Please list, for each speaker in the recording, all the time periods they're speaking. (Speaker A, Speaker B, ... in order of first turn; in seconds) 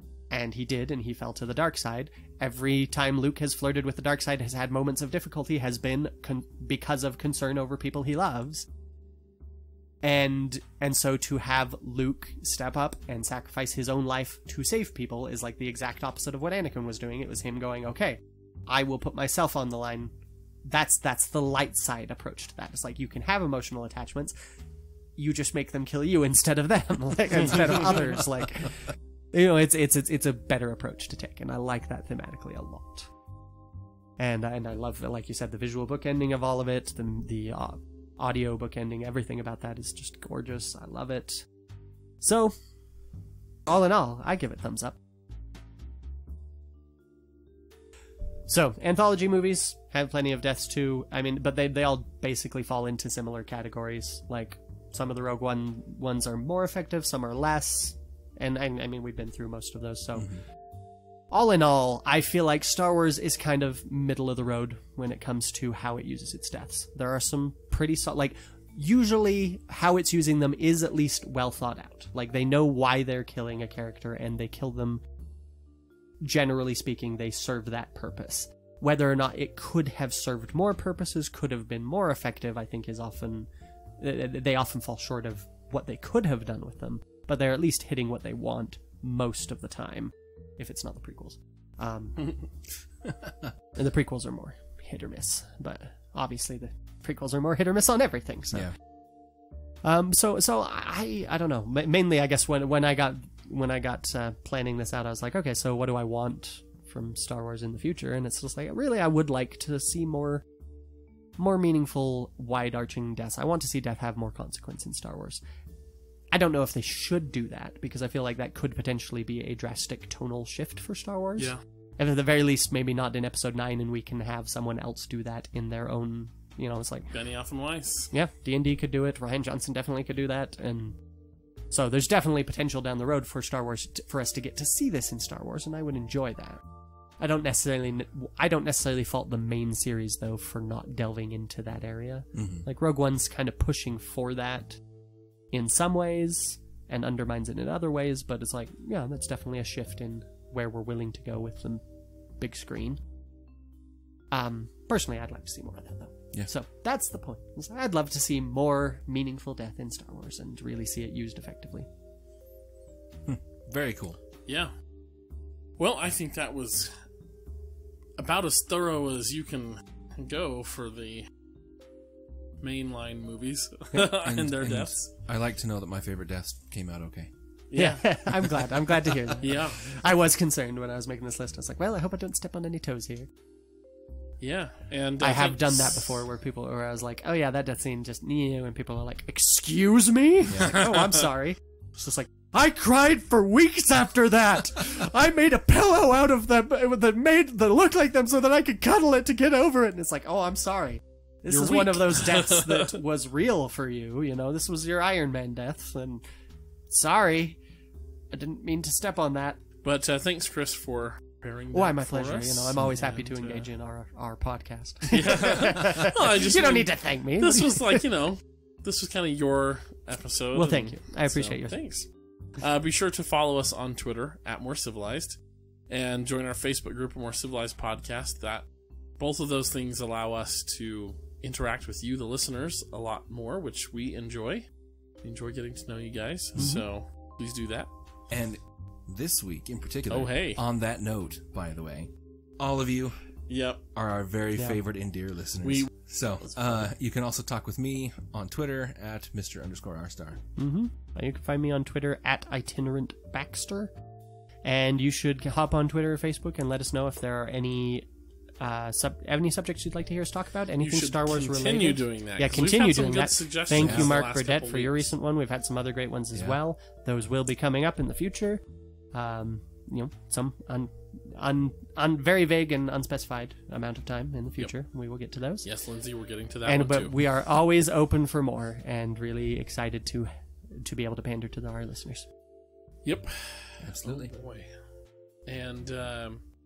Speaker A: 0.3-8.7, 10.0-20.1, 20.6-24.3, 25.2-33.1, 34.2-41.4, 42.2-42.5, 43.7-45.0, 48.5-60.3, 61.3-75.0, 76.2-83.5, 84.0-92.3, 93.8-98.7, 99.8-110.4, 111.4-115.4, 116.3-127.1, 128.1-131.0, 131.7-136.6, 137.2-144.8, 145.5-151.8, 152.4-153.0, 154.3-161.9, 177.7-183.3, 185.2-206.2, 206.9-207.6, 208.3-209.6, 211.7-218.1, 220.5-221.8, 236.6-236.8, 244.5-244.8, 250.6-253.9, 254.6-258.1, 258.6-275.6, 276.7-282.2
Speaker B: 60.1-60.4, 142.3-142.7, 163.2-164.2, 174.2-177.3, 190.5-190.8, 238.3-243.2, 243.9-250.4, 263.8-264.1, 266.3-266.6, 283.8-284.3
Speaker C: 92.2-92.5, 127.1-128.1, 164.5-164.7, 165.8-166.9, 168.2-171.3, 172.6-175.0, 177.7-178.6, 179.4-179.8, 184.4-186.0, 190.7-191.2, 201.5-202.9, 209.8-213.7, 215.1-228.7, 229.2-234.7, 235.2-237.9, 240.1-240.6, 243.5-243.8, 245.6-246.8, 260.8-265.1, 275.6-277.1, 283.0-284.7, 285.4-286.4